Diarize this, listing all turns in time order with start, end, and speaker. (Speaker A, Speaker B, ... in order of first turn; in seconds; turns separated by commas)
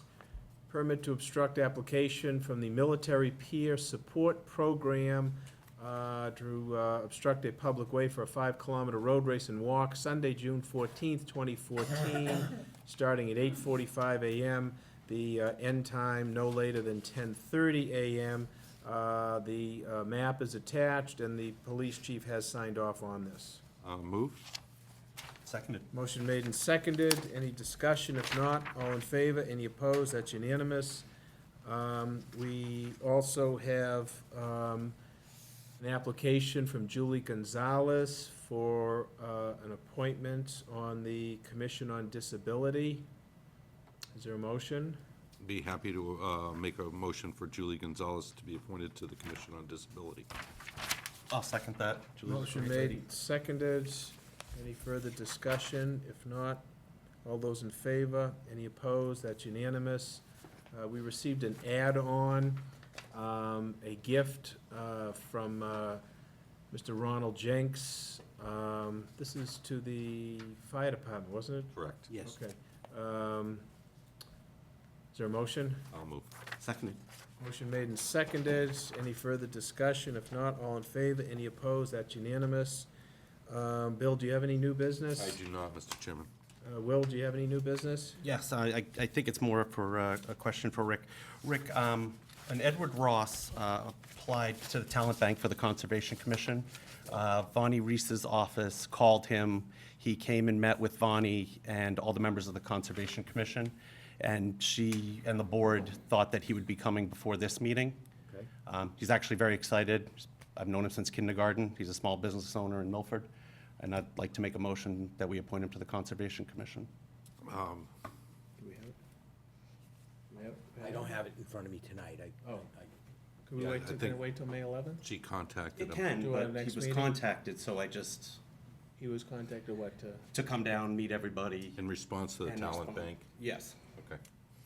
Speaker A: 0.7-23.6, Speaker B: 23.8-24.4, Speaker C: 25.4-25.9, Speaker A: 25.9-31.1, Speaker A: 31.6-34.9, Speaker A: 35.8-43.0, Speaker A: 44.1-45.0, Speaker B: 45.4-50.3, Speaker C: 51.3-53.0, Speaker A: 52.2-56.6, Speaker A: 57.2-66.0, Speaker A: 66.7-73.6, Speaker B: 71.7-72.1, Speaker D: 72.1-72.4, Speaker A: 75.1-75.8, Speaker B: 75.9-76.3, Speaker C: 76.6-77.0, Speaker A: 77.4-82.9, Speaker A: 83.5-85.4, Speaker B: 85.2-86.3, Speaker A: 86.6-88.2, Speaker C: 88.2-108.0, Speaker C: 108.7-116.9, Speaker B: 117.4-117.9, Speaker A: 118.6-118.9, Speaker A: 120.3-121.2, Speaker D: 120.8-122.9, Speaker A: 123.5-125.0, Speaker B: 123.6-124.2, Speaker B: 125.0-126.0, Speaker C: 125.8-128.4, Speaker A: 126.1-127.2, Speaker A: 129.0-130.2, Speaker C: 130.3-131.8, Speaker B: 131.8-133.3, Speaker C: 132.4-133.8